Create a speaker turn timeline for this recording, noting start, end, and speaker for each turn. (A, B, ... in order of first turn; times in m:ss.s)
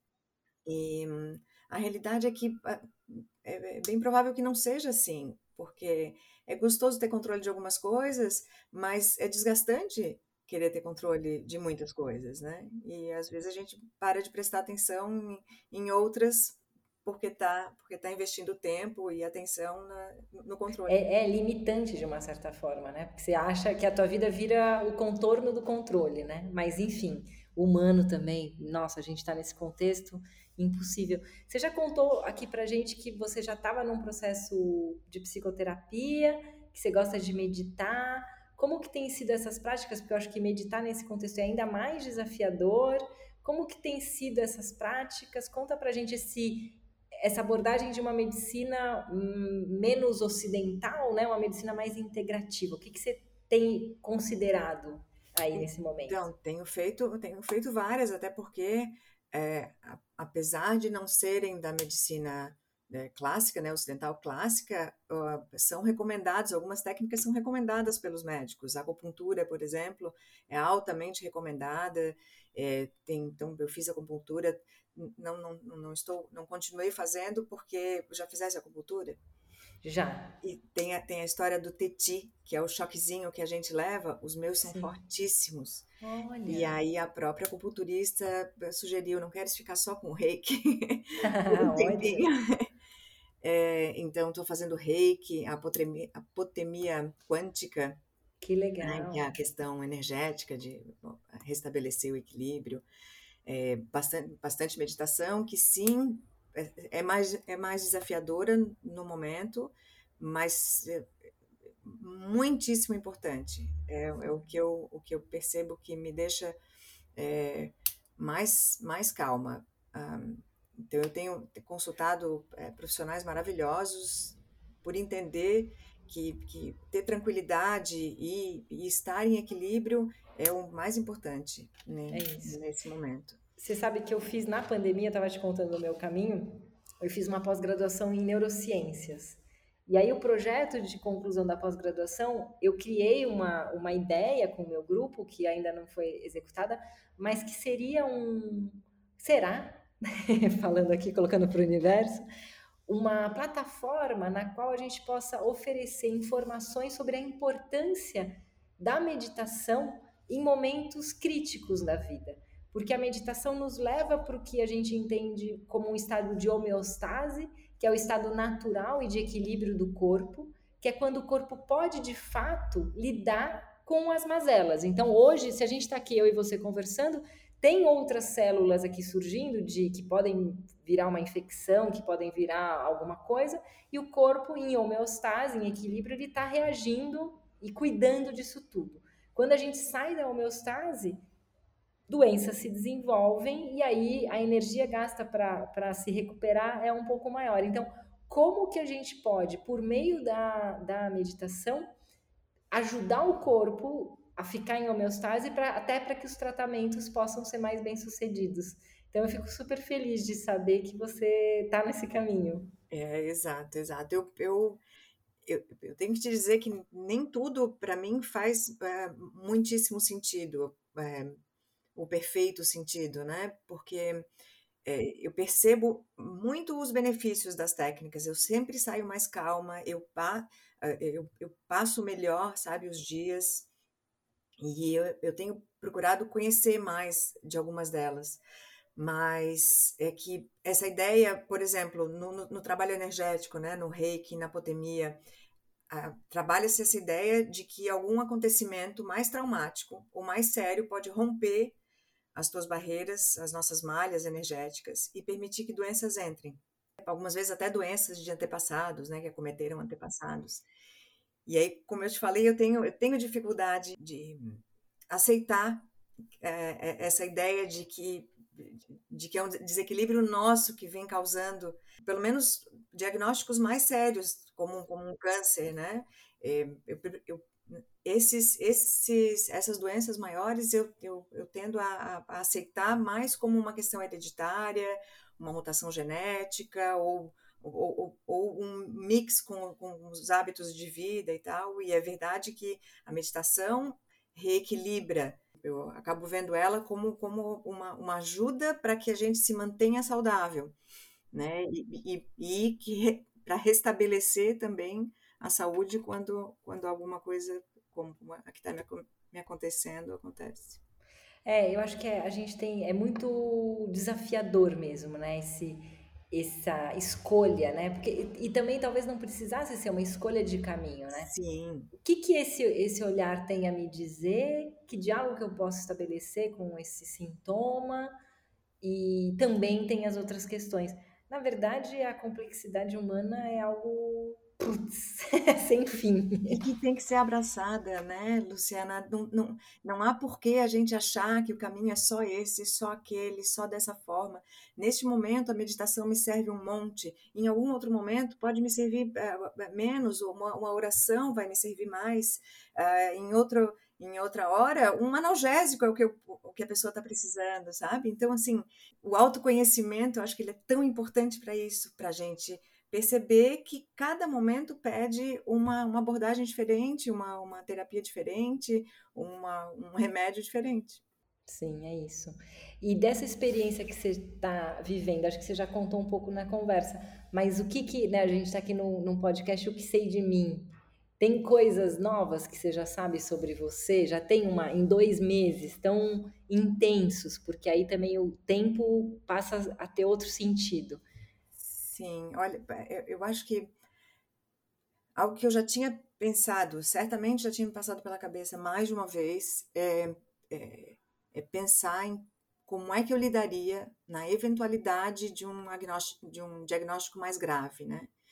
0:00.7-0:21.0 A
0:20.9-0:56.3 B
0:55.5-1:19.2 A
1:19.8-1:20.4 B
1:20.4-1:25.9 A
1:24.6-1:24.9 B
1:26.0-1:26.7 B
1:26.5-1:32.7 A
1:31.2-1:32.3 B
1:33.4-1:38.0 A
1:38.4-1:39.3 B
1:38.8-1:42.8 A
1:43.5-1:51.1 A
1:51.8-1:56.6 A
1:57.2-2:13.4 A
2:12.1-2:12.6 B
2:13.6-2:32.2 B
2:32.9-3:11.2 B
3:12.1-3:21.9 B
3:22.7-3:32.7 B
3:32.9-3:34.8 A
3:35.5-3:41.4 A
3:42.0-3:44.3 A
3:44.8-3:53.7 A
3:54.6-3:58.4 A
3:59.0-4:05.2 A
4:05.9-4:11.8 A
4:12.4-4:20.7 A
4:21.5-4:25.9 A
4:26.4-5:00.8 A
5:01.3-5:10.8 A
5:11.4-5:21.3 B
5:21.1-5:21.9 A
5:22.0-5:28.1 B
5:28.8-5:36.6 B
5:36.5-6:11.0 A
6:11.5-6:31.0 B
6:31.6-6:33.7 A
6:35.2-6:48.1 A